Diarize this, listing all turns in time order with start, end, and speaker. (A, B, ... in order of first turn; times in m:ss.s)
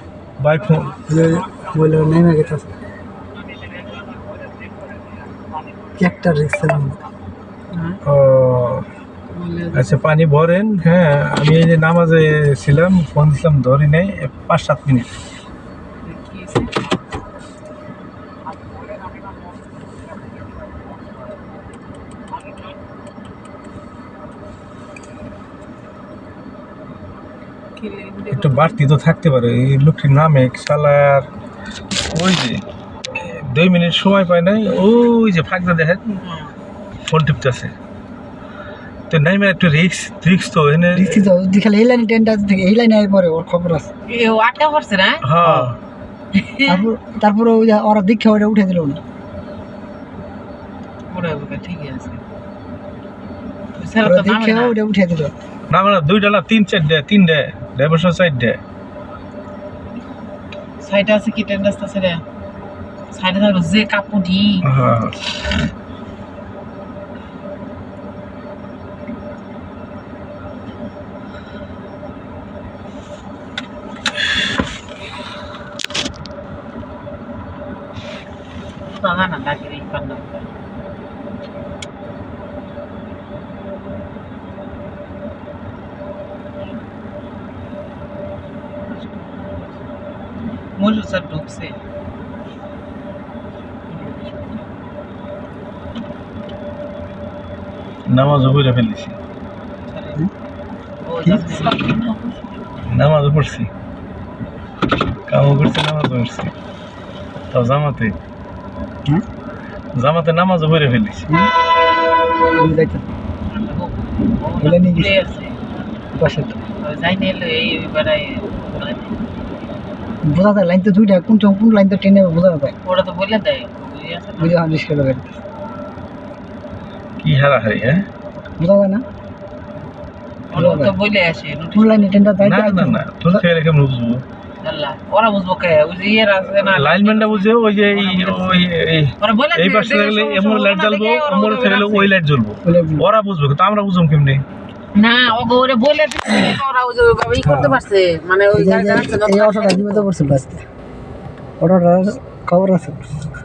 0:00.4-0:01.0 A
0:01.1-0:02.7 B
0:06.0-0:07.0 B
0:07.7-0:08.0 C
0:08.0-0:08.9 A
0:09.3-0:10.0 C
0:09.7-0:15.1 A
0:16.0-0:16.8 C
0:27.8-0:28.8 C
0:28.3-0:31.3 A
0:32.1-0:32.6 A
0:33.2-0:36.0 A
0:36.2-0:36.6 C
0:37.1-0:37.7 A
0:39.1-0:41.3 A
0:40.9-0:43.9 B
0:44.1-0:45.3 C
0:45.2-0:45.8 A
0:45.4-0:45.7 B
0:46.4-0:46.8 C
0:46.7-0:49.0 B
0:51.1-0:52.2 C
0:53.8-0:54.8 C
0:54.0-0:55.3 B
0:55.7-0:58.6 A
1:00.8-1:02.2 C
1:03.1-1:04.7 C
1:04.6-1:05.2 A
1:18.9-1:20.5 C
1:28.9-1:29.8 C
1:30.8-1:31.8 C
1:33.9-1:34.7 C
1:38.1-1:39.2 A
1:39.9-1:40.2 C
1:41.0-1:42.2 C
1:41.3-1:41.6 B
1:42.9-1:43.7 A
1:45.3-1:46.5 A
1:47.5-1:48.2 A
1:50.0-1:51.3 A
1:52.6-1:53.1 B
1:53.5-1:55.6 C
1:54.6-1:55.1 B
1:56.2-1:56.6 B
1:56.8-1:59.2 C
2:00.2-2:02.8 B
2:02.8-2:04.6 C
2:04.4-2:05.3 B
2:07.2-2:08.1 A
2:08.6-2:09.0 B
2:10.5-2:12.2 C
2:10.5-2:10.9 B
2:11.7-2:13.4 B
2:12.4-2:14.2 A
2:14.6-2:18.6 C
2:16.6-2:24.4 A
2:19.2-2:22.1 C
2:22.6-2:23.0 B
2:25.0-2:30.1 C
2:27.4-2:27.8 A
2:28.5-2:30.6 B
2:31.6-2:33.0 B